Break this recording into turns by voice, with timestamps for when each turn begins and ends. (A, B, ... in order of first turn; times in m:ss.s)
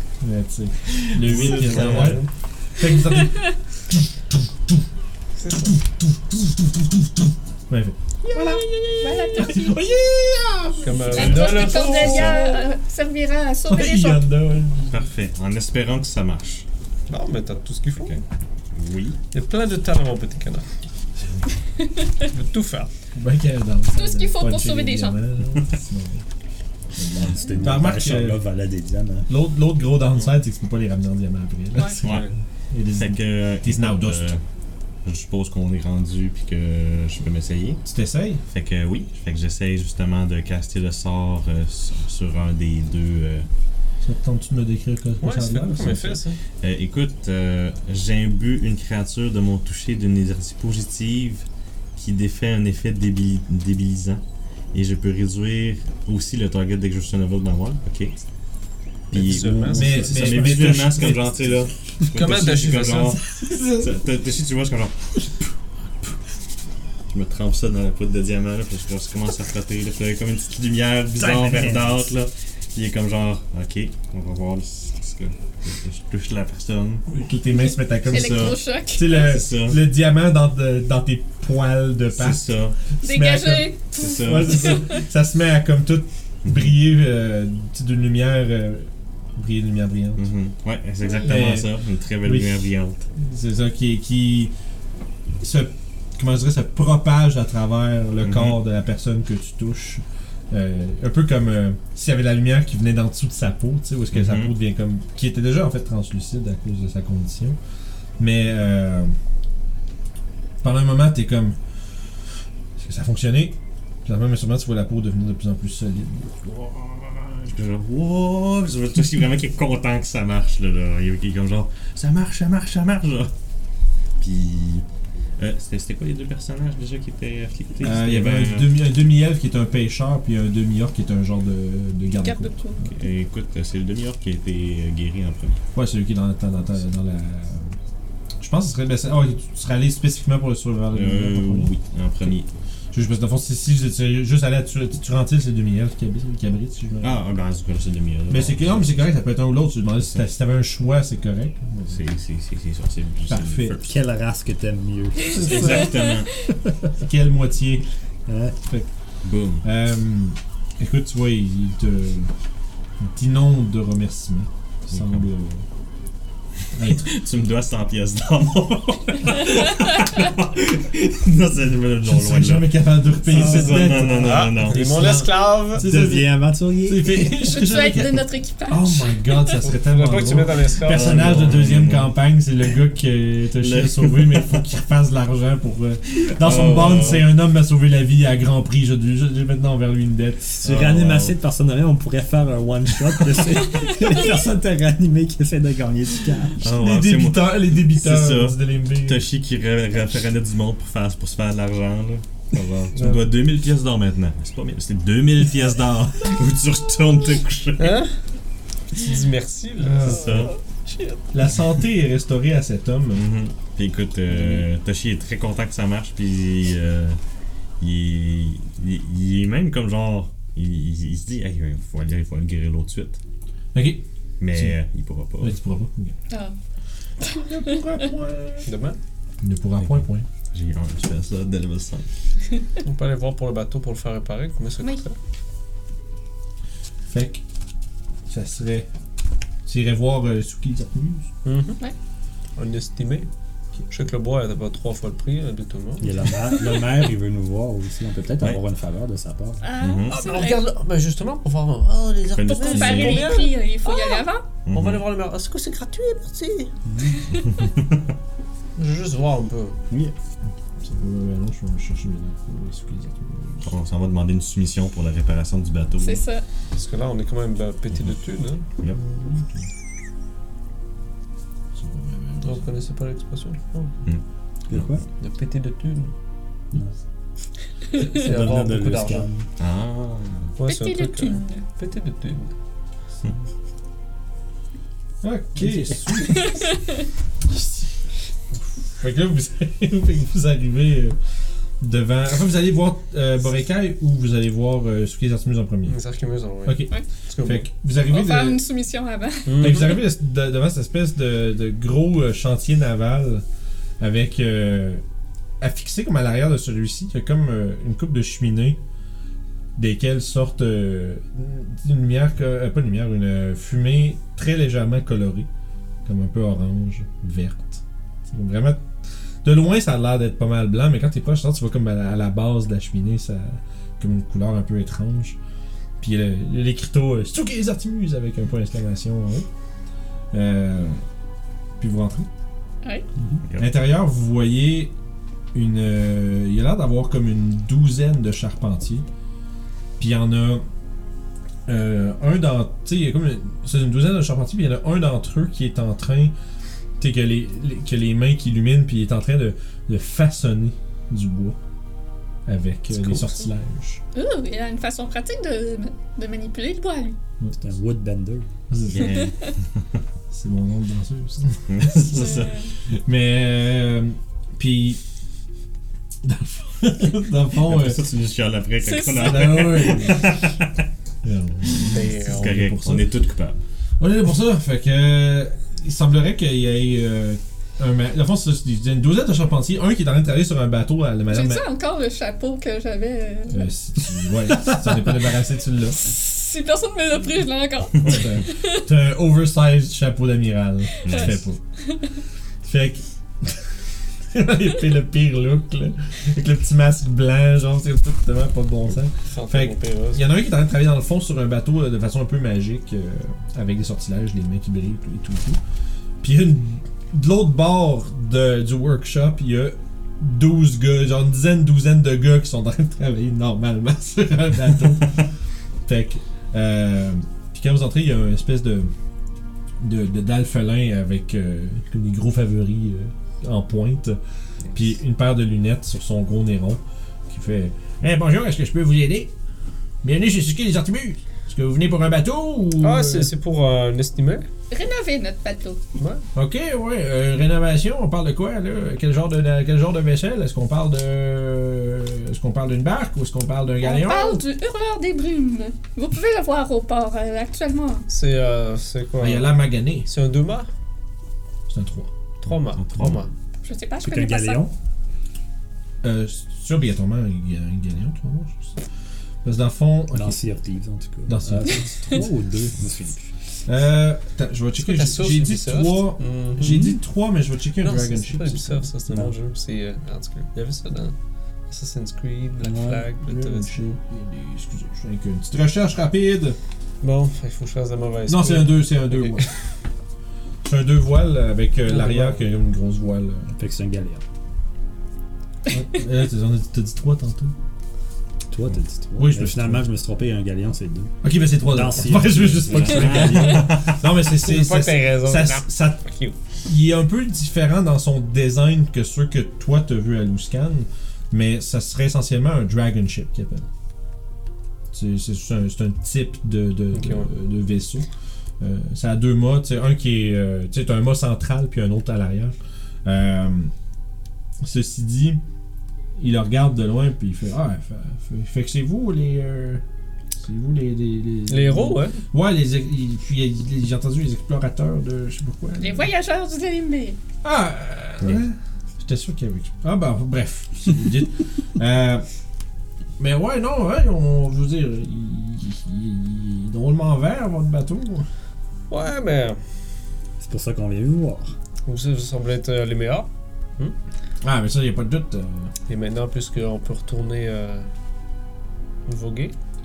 0:00.2-0:04.8 A
0:01.0-0:02.2 B
0:01.3-0:02.3 C
0:05.4-0:05.7 C
0:05.7-0:07.1 A
0:07.7-0:11.3 A
0:08.3-0:09.8 D
0:10.8-0:12.7 C
0:11.1-0:12.4 B
0:11.1-0:14.3 D
0:13.7-0:15.1 A
0:14.9-0:16.6 B
0:17.1-0:18.2 C
0:18.8-0:19.2 B
0:19.3-0:20.7 C
0:21.8-0:22.1 D
0:22.3-0:22.9 C
0:23.2-0:26.2 A
0:24.0-0:25.2 D
0:27.0-0:29.3 E
0:27.4-0:28.4 A
0:29.3-0:34.3 A
0:32.0-0:32.3 B
0:32.0-0:32.3 C
0:33.0-0:34.4 B
0:35.0-0:37.9 B
0:37.9-0:38.4 A
0:38.5-0:43.5 B
0:44.0-0:46.2 A
0:45.2-0:46.4 C
0:46.6-0:54.2 B
0:54.7-0:58.2 B
0:59.1-1:03.2 B
0:59.1-1:01.3 C
0:59.6-1:00.0 E
0:59.7-1:01.3 A
1:02.1-1:03.2 C
1:03.4-1:03.9 A
1:03.8-1:05.1 B
1:07.1-1:17.1 B
1:11.1-1:12.1 E
1:17.1-1:30.3 A
1:18.1-1:18.6 B
1:18.1-1:19.4 D
1:19.1-1:19.8 B
1:22.2-1:22.8 B
1:23.0-1:25.0 D
1:24.0-1:24.8 B
1:26.5-1:26.7 B
1:30.2-1:33.1 B
1:31.0-1:31.4 D
1:31.2-1:34.5 A
1:35.4-1:47.6 A
1:38.2-1:38.6 B
1:44.1-1:44.5 B
1:48.2-1:49.2 A
1:50.6-1:51.6 A
1:52.8-1:56.4 A
1:56.4-2:03.3 B
2:04.2-2:04.8 B
2:05.4-2:08.7 B
2:07.8-2:12.8 A
2:12.2-2:12.9 D
2:12.8-2:15.6 B
2:15.7-2:17.8 A
2:18.4-2:22.4 A
2:20.9-2:22.5 B
2:22.9-2:27.2 A
2:27.0-2:29.1 B
2:28.3-2:32.0 A
2:31.9-2:33.9 B
2:33.3-2:33.8 A
2:33.8-2:36.0 E
2:35.3-2:36.3 B
2:35.4-2:36.3 D
2:37.0-2:37.9 A
2:38.3-2:38.7 E
2:39.2-2:39.7 B
2:39.6-2:42.3 A
2:43.0-2:45.6 A
2:44.9-2:45.3 B
2:46.7-2:47.1 A
2:46.8-2:52.7 B
2:52.0-3:10.5 A
2:53.2-2:55.2 B
2:53.4-2:55.8 C
2:55.8-2:57.3 E
2:57.4-2:59.2 D
2:59.6-3:01.5 C
3:00.8-3:02.2 B
3:03.6-3:04.6 B
3:06.2-3:07.3 B
3:10.4-3:16.6 E
3:10.6-3:11.4 B
3:16.6-3:28.0 B
3:16.7-3:19.2 A
3:27.8-3:28.1 C
3:28.9-3:31.1 C
3:29.8-3:30.5 A
3:30.0-3:30.5 B
3:31.3-3:33.2 A
3:33.1-3:37.2 B
3:34.3-3:34.7 A
3:37.8-3:43.2 B
3:43.7-3:44.8 A
3:44.4-3:45.6 B
3:45.4-3:46.2 A
3:47.2-3:48.7 A
3:48.7-3:49.0 C
3:49.4-3:50.3 A
3:49.8-3:52.1 B
3:52.8-3:55.2 C
3:57.1-3:57.4 A
3:58.3-3:58.9 A
3:59.7-4:01.3 A
4:01.4-4:01.8 C
4:02.6-4:03.3 C
4:03.9-4:06.4 C
4:06.0-4:09.7 E
4:09.6-4:10.6 D
4:09.8-4:10.2 B
4:10.1-4:16.7 C
4:12.3-4:13.4 B
4:12.5-4:14.4 D
4:14.7-4:15.0 B
4:16.9-4:17.2 E
4:17.4-4:18.0 B
4:18.8-4:19.8 C
4:19.9-4:20.2 E
4:20.8-4:23.7 A
4:23.6-4:26.3 B
4:26.0-4:26.4 D
4:26.7-4:28.6 C
4:28.9-4:29.7 A
4:31.7-4:32.7 A
4:32.4-4:33.9 C
4:34.0-4:35.0 B
4:34.7-4:35.0 E
4:35.2-4:36.1 C
4:38.1-4:39.4 E
4:38.1-4:39.3 C
4:39.6-4:40.6 B
4:40.6-4:42.5 C
4:40.7-4:41.6 D
4:45.2-4:46.6 A
4:46.3-4:46.8 D
4:48.6-4:51.2 A
4:51.8-4:56.0 A
4:55.9-4:57.7 C
4:56.6-4:58.6 A
4:58.1-5:00.0 D
4:59.5-5:00.0 C
4:59.6-5:03.4 A
5:04.0-5:05.0 A
5:05.6-5:08.8 A
5:09.8-5:15.5 A
5:16.0-5:18.9 A
5:19.4-5:25.4 A
5:26.0-5:29.5 A
5:30.3-5:31.0 A
5:31.8-5:32.3 A
5:33.2-5:33.4 E
5:33.6-5:34.9 A
5:35.5-5:39.1 A
5:40.0-5:40.6 A
5:41.7-5:46.3 A
5:47.0-5:51.6 A
5:52.5-5:54.0 A
5:53.0-5:53.3 B
5:54.1-5:57.2 D
5:57.5-5:58.5 E
5:58.7-5:59.2 A
5:58.9-5:59.5 B
5:59.0-5:59.3 D
6:00.3-6:02.4 A
6:01.7-6:02.6 B
6:02.1-6:02.7 D
6:02.9-6:05.0 A
6:06.2-6:08.0 A
6:07.6-6:10.8 B
6:08.8-6:10.1 D
6:09.1-6:10.3 A
6:11.2-6:13.1 A
6:11.8-6:13.6 B
6:11.9-6:12.6 C
6:14.0-6:21.6 A
6:21.3-6:23.7 D
6:23.5-6:26.0 A
6:26.0-6:28.9 D
6:28.0-6:31.6 A
6:31.0-6:31.4 D
6:31.0-6:31.4 B
6:32.6-6:33.7 A
6:34.3-6:45.6 A
6:39.3-6:40.2 C
6:46.2-6:55.2 A
6:55.9-6:58.9 A
6:59.8-7:04.2 A
7:04.7-7:09.3 A
7:10.0-7:13.3 A
7:12.8-7:14.5 C
7:14.7-7:15.8 D
7:16.0-7:16.2 C
7:16.4-7:24.4 A
7:23.8-7:28.1 D
7:28.1-7:29.5 C
7:29.2-7:30.1 A
7:30.0-7:30.7 C
7:31.7-7:32.1 A
7:32.4-7:33.3 C
7:32.7-7:33.2 B
7:33.6-7:34.6 D
7:34.0-7:34.7 E
7:36.0-7:38.8 A
7:39.4-7:40.4 A
7:40.1-7:43.3 E
7:41.3-7:41.9 A
7:43.6-7:48.9 A
7:44.8-7:46.8 C
7:46.6-7:47.0 E
7:47.8-7:51.2 C
7:49.1-7:49.4 E
7:51.7-7:53.9 C
7:52.6-7:53.0 E
7:53.2-7:56.6 A
7:57.0-7:59.5 C
7:58.3-7:59.5 A
8:00.6-8:03.6 A
8:01.9-8:02.5 C
8:03.6-8:04.2 E
8:05.7-8:07.5 A
8:08.5-8:13.7 E
8:09.2-8:09.8 A
8:11.2-8:16.0 A
8:12.7-8:14.1 B
8:14.4-8:16.4 C
8:16.6-8:23.7 A
8:24.9-8:28.1 A
8:26.9-8:27.3 C
8:28.6-8:33.7 A
8:34.6-8:35.4 A
8:36.2-8:39.8 A
8:40.4-8:46.1 A
8:41.5-8:42.2 C
8:45.8-8:47.2 D
8:47.4-8:52.3 A
8:53.2-8:58.3 A
8:58.9-8:59.6 C
9:00.4-9:01.5 E
9:01.9-9:04.0 C
9:04.4-9:05.7 A
9:05.9-9:07.9 C
9:09.1-9:09.6 C